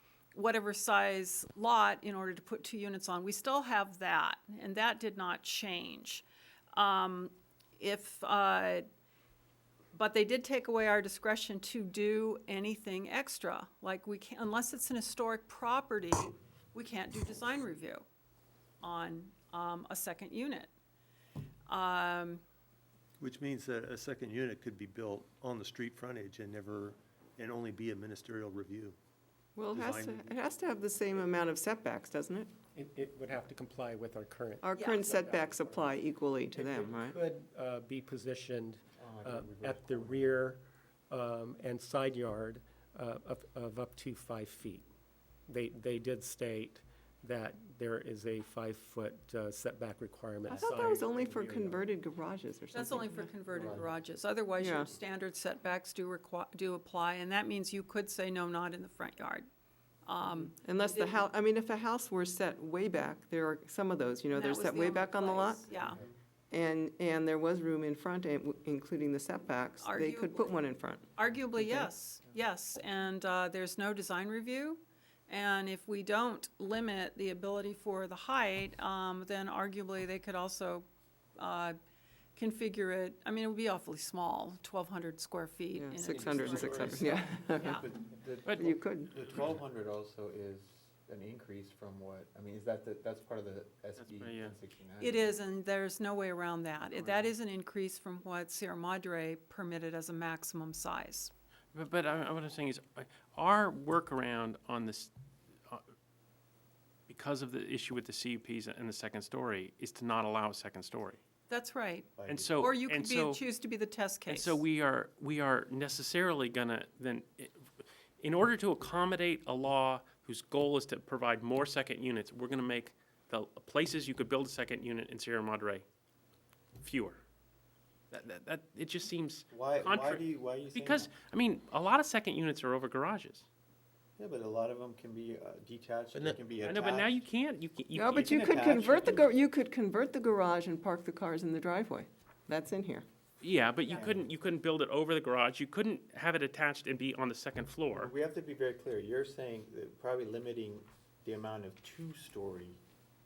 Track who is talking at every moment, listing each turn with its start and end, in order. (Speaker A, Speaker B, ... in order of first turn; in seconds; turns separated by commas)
Speaker A: 0.3-8.9, Speaker A: 9.9-18.1, Speaker A: 18.8-20.7, Speaker A: 21.7-22.4, Speaker B: 23.2-29.0, Speaker C: 29.6-32.5, Speaker B: 29.7-30.3, Speaker D: 32.8-35.9, Speaker C: 34.6-37.2, Speaker A: 34.8-35.0, Speaker D: 36.6-44.9, Speaker E: 39.0-40.4, Speaker D: 45.5-51.7, Speaker C: 50.5-53.4, Speaker E: 50.5-51.7, Speaker A: 52.7-59.5, Speaker E: 53.5-53.9, Speaker C: 54.6-54.9, Speaker A: 60.1-61.2, Speaker C: 60.2-65.7, Speaker A: 64.3-66.0, Speaker C: 66.5-71.1, Speaker A: 69.8-70.6, Speaker A: 71.2-81.8, Speaker C: 71.6-71.9, Speaker A: 82.4-87.8, Speaker C: 85.8-87.9, Speaker E: 86.1-95.3, Speaker F: 88.4-88.7, Speaker C: 88.5-89.1, Speaker F: 94.0-94.5, Speaker A: 95.0-101.3, Speaker F: 101.7-105.1, Speaker F: 107.1-111.2, Speaker A: 111.5-114.6, Speaker E: 112.2-112.6, Speaker F: 112.3-113.4, Speaker F: 114.3-117.7, Speaker F: 118.2-125.8, Speaker F: 126.8-127.2, Speaker F: 128.1-133.5, Speaker E: 129.5-131.1, Speaker E: 134.2-137.2, Speaker F: 136.6-138.4, Speaker C: 137.9-143.1, Speaker E: 138.2-139.3, Speaker F: 143.4-148.1, Speaker E: 143.9-144.3, Speaker E: 147.9-152.8